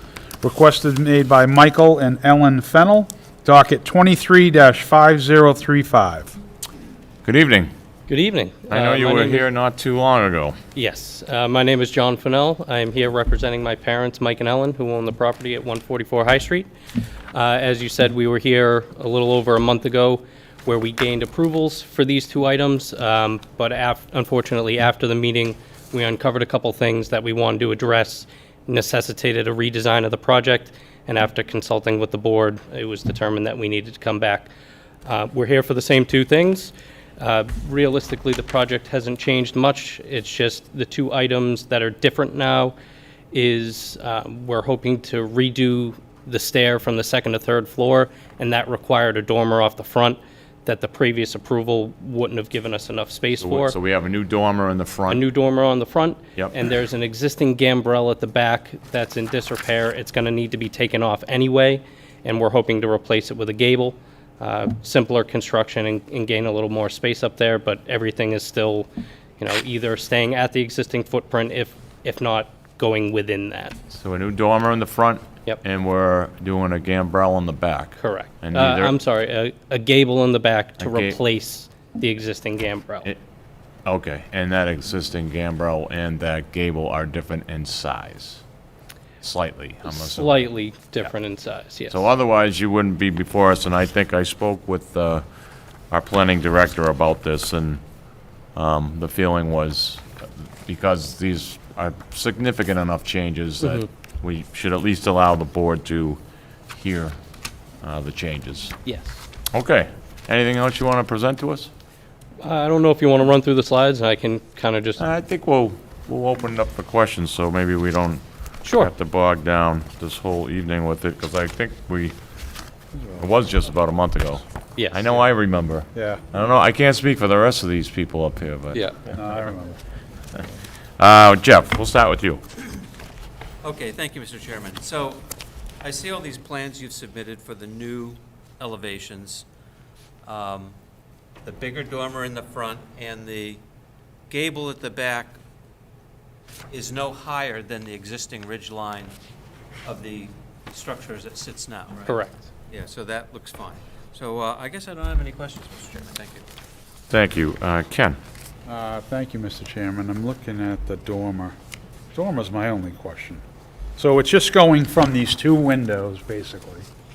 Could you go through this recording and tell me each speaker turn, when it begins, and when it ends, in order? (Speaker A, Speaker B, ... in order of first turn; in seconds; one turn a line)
Speaker A: 0.4-6.4
Speaker B: 7.2-7.7
Speaker C: 8.1-9.5
Speaker B: 8.7-10.6
Speaker C: 10.7-16.7
Speaker C: 17.3-34.5
Speaker C: 35.0-42.8
Speaker C: 43.3-53.8
Speaker B: 53.4-55.2
Speaker C: 55.1-73.8
Speaker B: 74.0-78.9
Speaker C: 78.0-83.1
Speaker B: 80.8-81.2
Speaker B: 83.8-88.4
Speaker B: 89.2-90.5
Speaker C: 89.8-92.0
Speaker B: 91.9-95.2
Speaker B: 95.9-97.8
Speaker B: 98.5-106.2
Speaker B: 106.7-107.2
Speaker B: 107.8-108.8
Speaker C: 108.8-109.2
Speaker B: 109.5-111.7
Speaker C: 112.4-115.0
Speaker B: 115.0-122.1
Speaker C: 118.6-118.9
Speaker B: 123.1-128.9
Speaker C: 124.8-125.2
Speaker A: 125.9-126.2
Speaker A: 129.1-129.8
Speaker B: 131.0-132.4
Speaker D: 133.6-135.2
Speaker D: 135.8-139.4
Speaker D: 140.2-140.8
Speaker D: 141.4-143.6
Speaker D: 144.3-145.4
Speaker D: 146.7-149.1
Speaker D: 149.8-156.5
Speaker C: 152.1-152.4
Speaker B: 157.1-158.2
Speaker A: 158.7-161.6
Speaker A: 162.1-163.4
Speaker A: 164.0-166.9